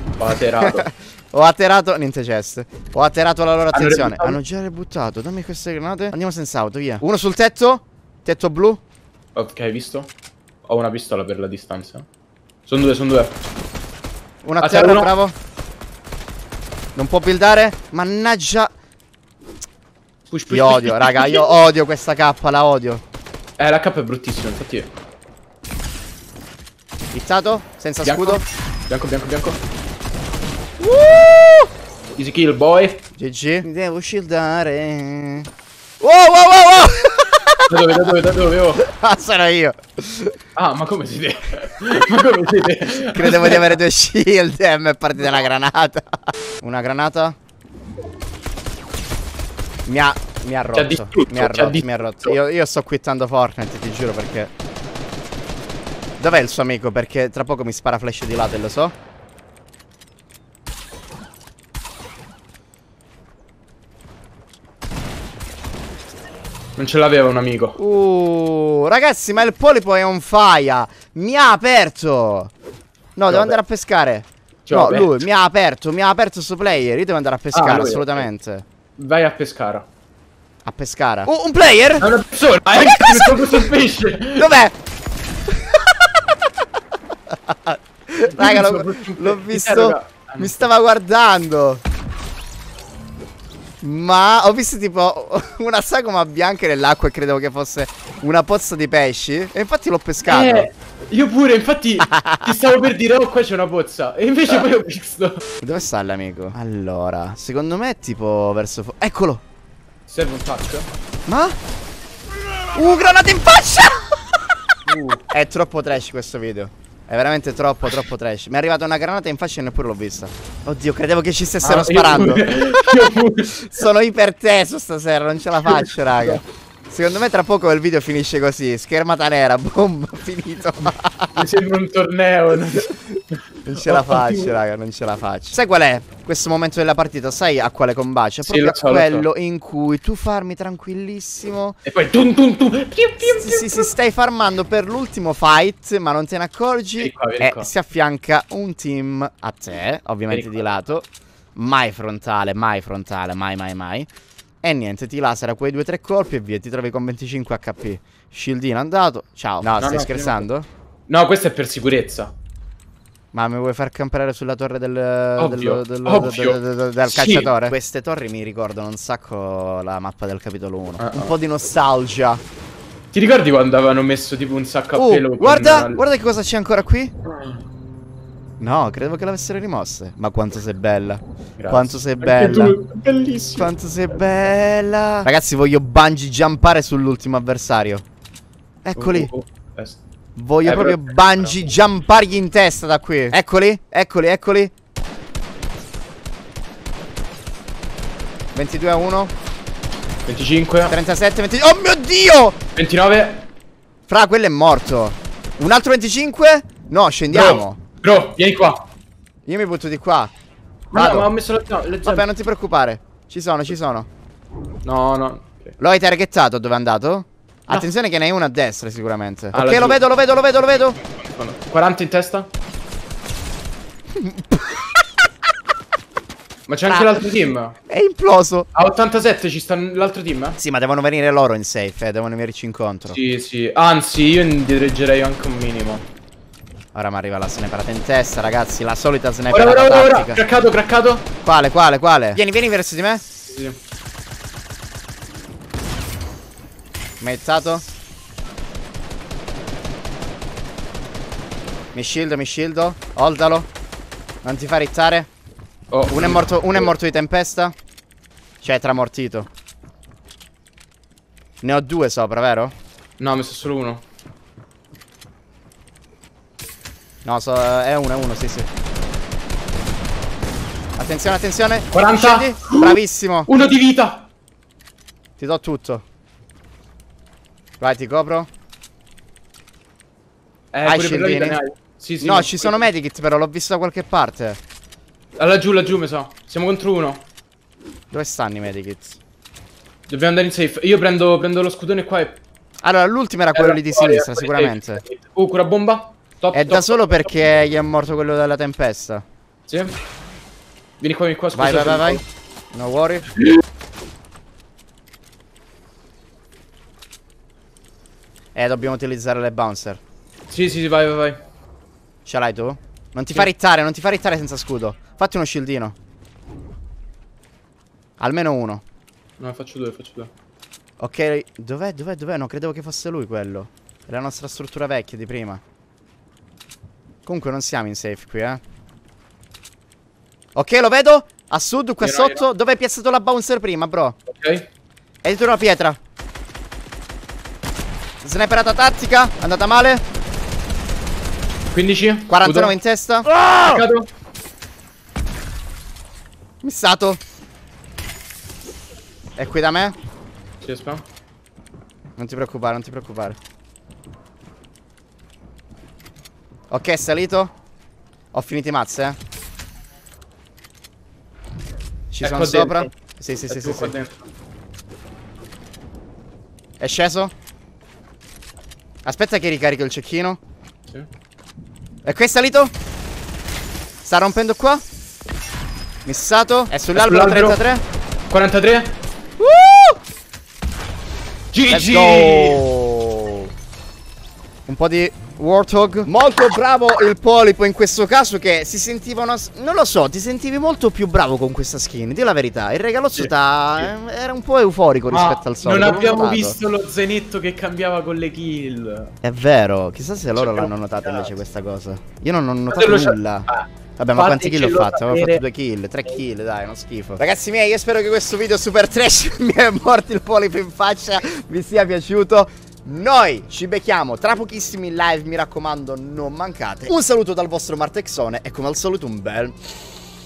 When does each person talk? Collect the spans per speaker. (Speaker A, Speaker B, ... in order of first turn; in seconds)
Speaker A: 0.2-0.9, 3.7-4.4, 9.3-10.1, 10.6-12.1, 12.7-13.4, 14.6-15.1, 20.3-21.5, 23.6-24.9, 28.0-29.6, 32.1-33.0, 37.7-38.8, 40.5-43.8, 50.7-52.4, 66.8-67.8, 73.3-73.6, 74.7-75.2, 77.5-78.3, 79.0-79.9, 82.0-84.5, 88.3-90.7, 100.2-105.4, 110.1-110.9, 114.8-115.2, 121.6-123.8, 125.7-126.4, 131.3-134.6, 138.4-139.3, 141.8-143.9, 147.0-147.7, 150.3-150.7, 159.8-160.5, 161.1-162.3, 165.4-167.7, 171.0-171.3, 173.1-176.0, 177.3-177.6, 181.6-183.7, 188.9-190.0, 190.6-191.5, 200.2-200.9, 202.8-203.5, 207.3-208.8, 210.9-212.3, 214.8-215.8, 219.5-220.0, 221.0-222.5, 226.7-227.8, 228.7-230.6, 233.1-236.1, 239.5-241.2, 243.4-243.8, 255.9-256.9, 263.2-264.0, 271.9-274.3, 280.7-282.9, 285.4-287.2, 290.1-292.4, 293.5-297.3, 299.7-299.9, 301.0-302.2, 310.5-311.4, 319.4-320.3, 332.0-332.5, 334.3-334.7, 341.7-342.8, 343.4-344.1, 350.6-351.0, 362.2-362.9, 363.5-364.2, 376.9-377.6, 378.3-378.9, 381.5-382.6, 393.1-393.9, 395.1-399.1, 400.3-401.4, 402.7-405.4
Speaker B: 0.6-8.8, 14.4-15.3, 16.9-18.7, 20.5-23.0, 27.1-28.4, 30.8-31.7, 33.1-35.5, 36.0-37.7, 38.8-40.4, 43.1-47.4, 49.9-54.5, 56.2-58.9, 67.8-72.5, 73.2-78.6, 80.6-82.1, 82.7-83.7, 84.3-84.7, 85.5-86.2, 87.3-91.8, 93.8-100.7, 102.1-102.5, 105.6-109.4, 111.3-111.6, 112.6-114.4, 115.3-123.0, 123.5-131.4, 133.6-141.8, 143.2-154.1, 154.6-160.7, 163.3-172.4, 174.9-177.1, 178.6-182.8, 183.5-188.0, 188.8-189.3, 190.3-194.7, 198.5-199.3, 200.9-202.6, 204.1-207.8, 209.5-210.3, 210.9-211.3, 212.0-214.1, 215.8-221.0, 224.2-225.0, 226.9-227.2, 227.9-228.7, 230.6-233.2, 236.9-240.4, 241.4-243.2, 247.2-247.8, 251.9-253.7, 254.4-255.3, 256.1-257.7, 258.6-259.5, 261.6-262.7, 267.2-268.7, 271.0-273.5, 275.4-276.0, 277.8-278.5, 280.8-281.6, 282.2-284.6, 288.1-289.2, 292.8-295.0, 296.5-299.2, 301.5-303.3, 308.5-310.0, 312.2-315.9, 318.2-318.8, 321.0-325.6, 327.2-328.6, 330.5-334.2, 335.2-336.0, 338.2-340.0, 342.3-343.8, 346.6-347.2, 349.4-349.9, 352.2-353.4, 356.7-357.5, 358.3-359.2, 362.1-363.9, 366.8-367.3, 369.0-370.4, 372.0-372.7, 374.0-374.8, 376.1-377.8, 379.4-380.0, 381.7-383.5, 384.7-396.6, 399.2-419.9